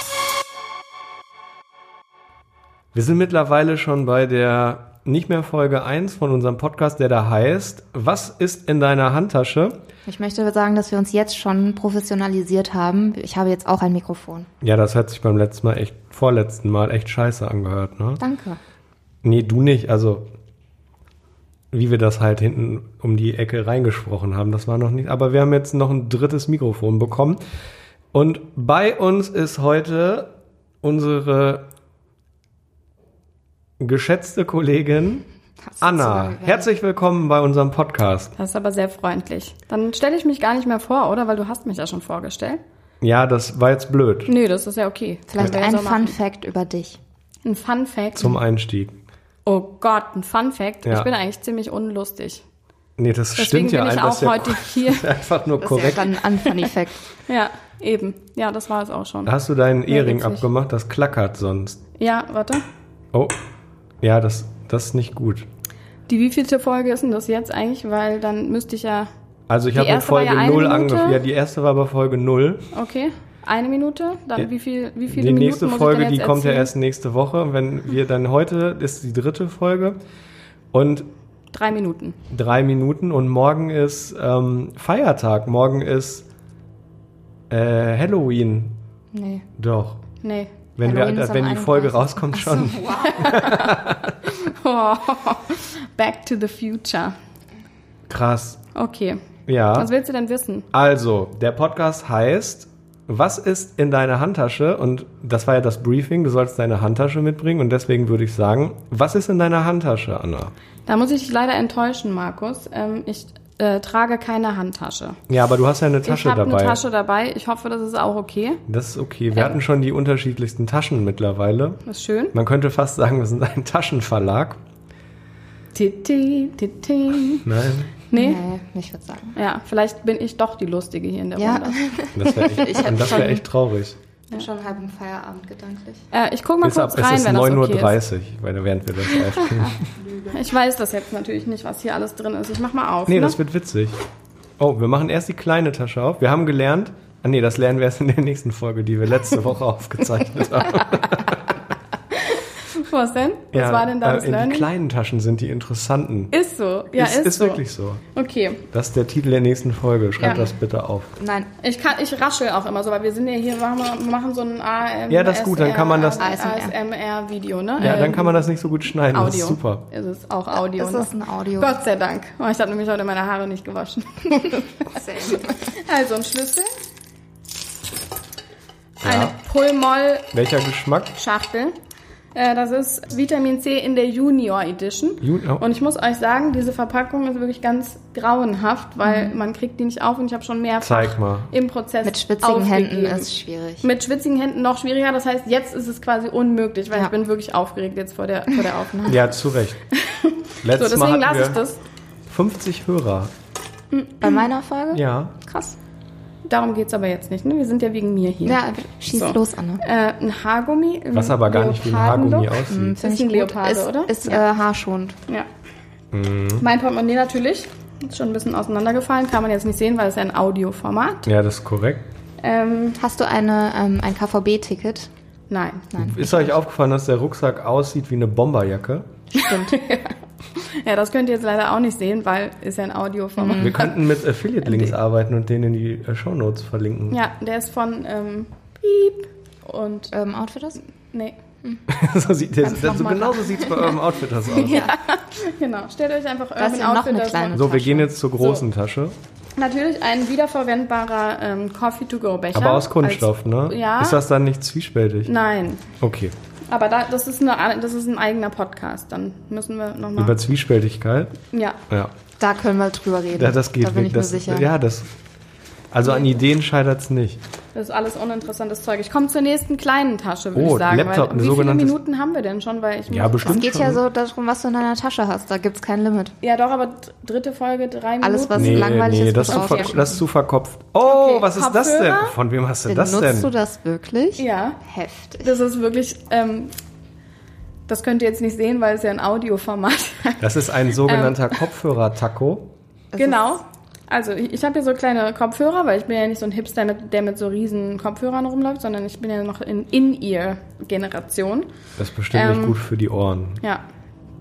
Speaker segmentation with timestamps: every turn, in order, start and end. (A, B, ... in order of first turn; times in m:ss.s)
0:02.9-0:09.8 A
0:10.0-0:14.5 B
0:14.6-0:18.2 A
0:18.2-0:18.6 B
0:19.2-0:20.2 A
0:21.7-0:27.4 A
0:28.1-0:30.3 A
0:30.8-0:31.6 A
0:33.8-0:35.2 A
0:35.6-0:36.7 B
0:35.8-0:38.3 A
0:38.4-0:42.6 C
0:43.0-0:44.3 A
0:44.2-0:46.1 C
0:45.3-0:47.0 B
0:47.4-0:48.4 C
0:48.2-0:49.0 A
0:49.4-0:52.4 C
0:50.8-0:51.1 A
0:53.0-0:56.2 A
0:53.4-0:55.1 C
0:55.6-0:57.0 B
0:56.4-0:56.7 C
0:57.2-0:59.3 C
0:59.2-1:01.8 A
0:59.9-1:00.4 C
1:02.0-1:02.6 C
1:04.0-1:05.4 A
1:06.1-1:09.1 C
1:09.5-1:12.7 A
1:09.7-1:11.2 C
1:12.7-1:16.7 C
1:15.1-1:20.0 A
1:20.7-1:21.0 A
1:21.5-1:22.2 C
1:22.3-1:26.2 A
1:27.5-1:28.8 A
1:29.1-1:29.5 B
1:29.6-1:30.0 A
1:30.2-1:30.6 C
1:30.8-1:34.1 A
1:30.8-1:33.4 B
1:33.0-1:37.1 C
1:38.1-1:38.6 A
1:38.7-1:39.2 C
1:39.5-1:39.9 A
1:39.7-1:40.7 C
1:40.7-1:50.5 A
1:50.8-1:55.2 C
1:55.3-1:56.8 A
1:56.0-1:58.6 C
1:58.7-2:01.8 A
2:01.8-2:02.3 C
2:02.3-2:04.6 A
2:05.7-2:07.5 C
2:07.4-2:07.9 A
2:08.0-2:08.4 C
2:08.1-2:09.4 B
2:09.4-2:11.8 C
2:11.4-2:13.4 B
2:12.1-2:14.0 A
2:14.3-2:16.0 B
2:16.1-2:18.0 C
2:16.6-2:19.8 A
2:20.2-2:23.4 C
2:23.1-2:23.9 A
2:24.6-2:31.5 A
2:32.2-2:34.7 C
2:33.5-2:36.3 A
2:36.3-2:38.6 C
2:36.9-2:38.0 A
2:38.7-2:41.1 A
2:40.2-2:40.5 B
2:40.2-2:40.5 C
2:41.2-2:41.5 B
2:41.6-2:56.7 C
2:45.1-2:46.3 A
2:46.2-2:46.7 B
2:47.8-2:49.8 A
2:50.5-2:51.8 B
2:54.9-2:55.6 B
2:59.0-3:00.3 C
2:59.0-2:59.3 A
3:00.3-3:01.1 A
3:01.1-3:01.7 C
3:02.3-3:13.3 C
3:05.2-3:05.6 A
3:09.0-3:09.4 B
3:10.8-3:11.5 A
3:12.0-3:13.8 B
3:13.8-3:19.4 C
3:19.0-3:19.8 A
3:19.9-3:21.8 C
3:20.6-3:21.6 A
3:22.3-3:23.3 A
3:23.9-3:24.5 C
3:24.2-3:25.0 B
3:24.9-3:25.4 A
3:25.4-3:25.8 C
3:26.4-3:34.4 C
3:28.4-3:29.8 B
3:31.1-3:33.0 A
3:32.7-3:35.2 B
3:36.1-3:36.6 A
3:36.6-3:41.3 C
3:41.2-3:42.0 A
3:42.4-3:43.0 C
3:43.0-3:45.1 B
3:45.5-3:45.9 C
3:45.9-3:46.6 B
3:46.0-3:49.1 A
3:49.3-3:49.7 B
3:49.4-3:54.0 C
3:53.4-3:53.8 B
3:53.6-3:57.2 A
3:54.6-3:54.9 C
3:57.1-4:00.1 C
4:00.1-4:00.8 B
4:01.1-4:01.4 C
4:01.9-4:04.9 A
4:02.6-4:04.0 B
4:04.5-4:07.7 C
4:04.6-4:05.0 B
4:06.6-4:08.1 B
4:07.5-4:09.1 A
4:08.4-4:08.6 C
4:09.6-4:14.2 C
4:12.5-4:15.3 A
4:15.2-4:15.8 C
4:16.0-4:16.3 A
4:16.7-4:20.4 C
4:20.2-4:21.3 A
4:21.5-4:21.8 C
4:22.4-4:24.7 B
4:23.4-4:25.1 A
4:25.9-4:27.4 A
4:27.7-4:33.6 C
4:30.5-4:32.0 A
4:33.1-4:34.0 A
4:33.4-4:36.3 B
4:36.4-4:39.9 C
4:38.2-4:40.2 B
4:38.5-4:43.5 A
4:41.0-4:42.4 C
4:42.8-4:45.5 B
4:44.4-4:44.8 C
4:45.4-4:46.7 C
4:47.9-4:51.6 C
4:50.4-4:52.7 A
4:53.1-4:53.6 B
4:53.2-5:01.7 C
5:02.0-5:03.6 A
5:02.3-5:02.8 C